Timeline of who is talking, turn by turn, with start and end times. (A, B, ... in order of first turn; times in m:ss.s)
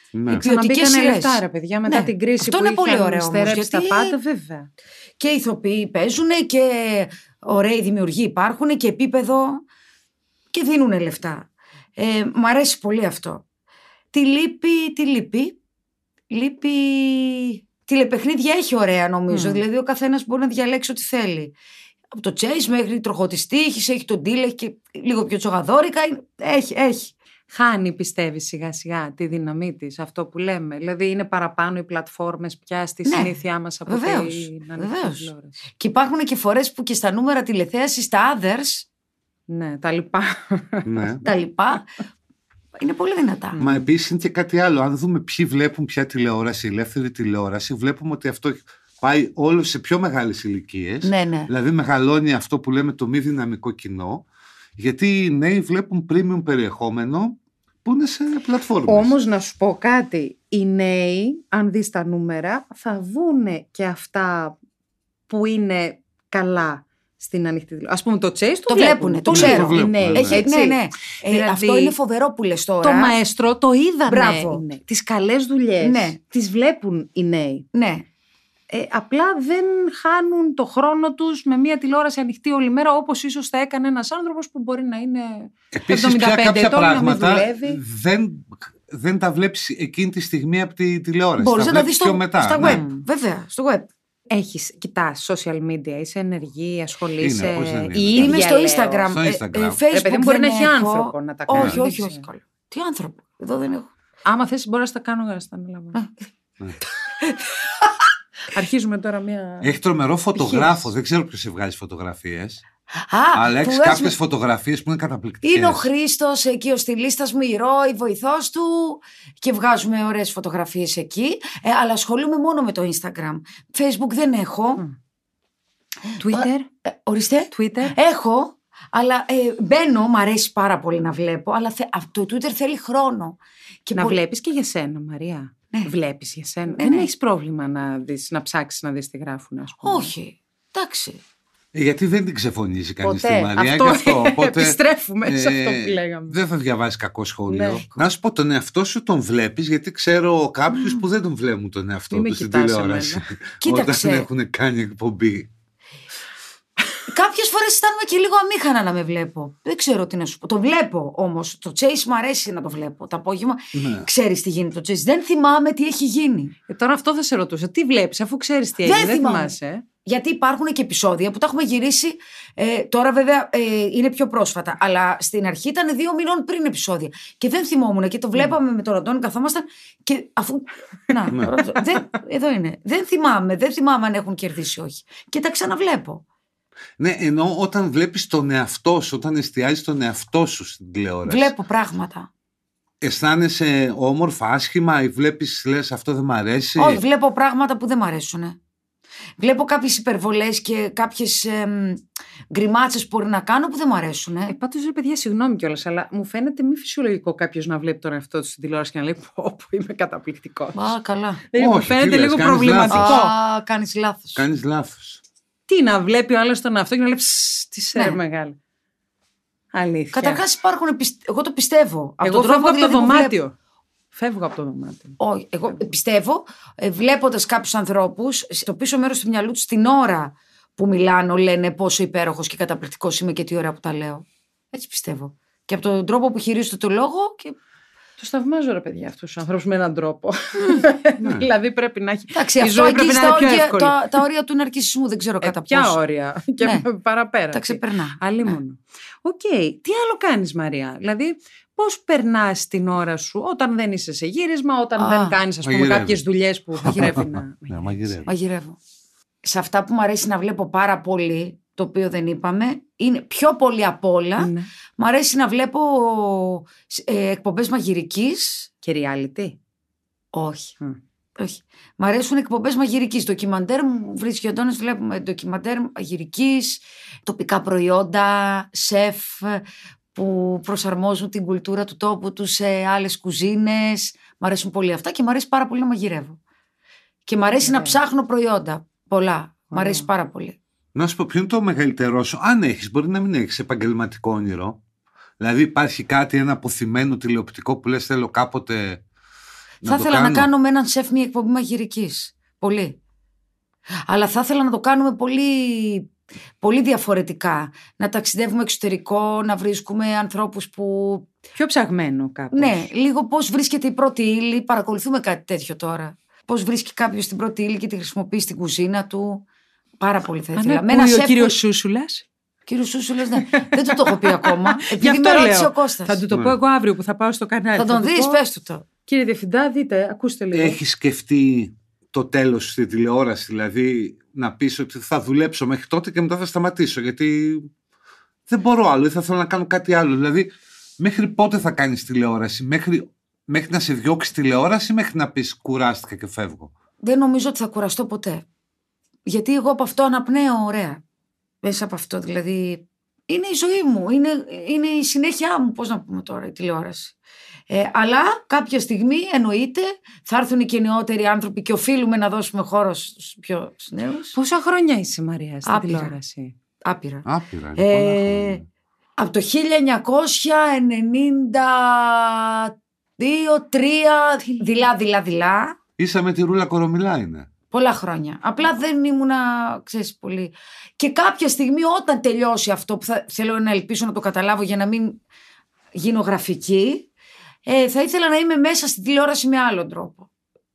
0:00.1-0:00.4 A
0:00.3-0:04.7 B
0:00.3-0:04.2 C
0:05.2-0:09.6 C
0:10.5-0:13.4 C
0:14.1-0:15.6 C
0:16.3-0:21.5 C
0:19.3-0:19.6 B
0:22.2-0:27.1 C
0:27.5-0:35.6 B
0:33.0-0:33.3 C
0:33.9-0:38.9 C
0:39.5-0:41.2 B
0:40.8-0:41.2 A
0:41.2-0:41.9 C
0:42.8-0:43.6 C
0:43.6-0:43.9 B
0:43.6-0:54.2 A
0:51.0-0:51.5 C
0:54.8-0:59.2 A
0:58.9-1:04.6 B
1:05.3-1:12.0 B
1:08.7-1:13.2 C
1:09.3-1:10.4 A
1:12.8-1:17.7 B
1:14.1-1:14.6 C
1:15.8-1:16.2 C
1:17.7-1:18.1 C
1:18.7-1:27.8 B
1:25.7-1:32.8 A
1:31.4-1:33.9 C
1:32.6-1:33.0 B
1:34.3-1:39.1 B
1:37.2-1:38.5 A
1:38.2-1:43.9 C
1:39.1-1:39.8 A
1:39.9-1:42.2 B
1:44.2-1:46.0 B
1:47.2-1:47.9 C
1:48.5-1:49.8 B
1:49.6-1:52.6 A
1:53.1-1:54.1 C
1:53.3-1:55.9 A
1:55.4-2:04.8 C
2:06.1-2:14.2 C
2:06.2-2:06.7 B
2:07.5-2:08.0 B
2:14.0-2:20.1 B
2:16.8-2:17.1 C
2:19.8-2:21.2 C
2:21.7-2:35.5 A
2:23.0-2:26.4 B
2:27.5-2:27.9 B
2:32.1-2:33.3 B
2:33.6-2:34.3 C
2:37.1-2:46.6 C
2:43.8-2:44.1 A
2:46.7-2:49.8 B
2:48.8-2:49.5 C
2:50.0-3:06.2 C
3:07.0-3:11.5 A
3:11.3-3:12.3 C
3:13.0-3:17.0 A
3:16.8-3:18.6 C
3:19.4-3:24.6 C
3:24.5-3:30.9 B
3:30.7-3:31.4 C
3:31.5-3:33.4 B
3:31.6-3:33.2 A
3:32.9-3:34.4 C
3:34.4-3:35.2 A
3:35.7-3:38.6 B
3:39.7-3:40.4 B
3:40.1-3:43.4 C
3:42.2-3:43.5 B
3:44.1-3:45.2 B
3:45.2-3:57.6 C
3:58.2-4:04.1 B
4:01.2-4:01.5 A
4:02.3-4:06.0 C
4:05.4-4:18.1 B
4:06.6-4:06.9 C
4:07.5-4:08.2 C
4:15.0-4:15.4 C
4:15.6-4:16.2 A
4:16.8-4:18.3 A
4:18.3-4:18.8 C
4:19.4-4:28.7 C
4:24.4-4:24.7 B
4:28.8-4:29.6 B
4:30.3-4:30.7 C
4:31.4-4:39.6 C
4:40.2-4:46.4 C
4:47.3-4:50.6 C
4:47.6-4:48.0 B
4:49.7-4:50.1 B
4:51.0-4:54.8 A
4:55.4-4:59.0 A
4:59.8-5:00.5 A
4:59.8-5:03.0 C
5:04.1-5:06.1 C
5:06.6-5:11.3 C
5:11.6-5:12.9 B
5:12.5-5:19.4 C
5:20.0-5:21.6 C
5:20.6-5:22.2 B
5:22.7-5:26.2 C
5:23.4-5:28.4 B
5:26.3-5:26.6 A
5:27.8-5:28.9 C
5:29.1-5:30.8 B
5:30.5-5:37.7 A
5:38.5-5:46.7 A
5:47.0-5:48.4 C
5:49.3-5:51.0 C
5:51.6-5:57.2 C
5:57.7-6:04.4 C
6:04.4-6:06.5 B
6:05.7-6:06.1 C
6:06.8-6:08.6 C
6:07.3-6:08.6 A
6:09.2-6:15.8 C
6:16.0-6:17.5 A
6:17.7-6:25.2 C
6:26.0-6:27.1 C
6:27.7-6:30.3 C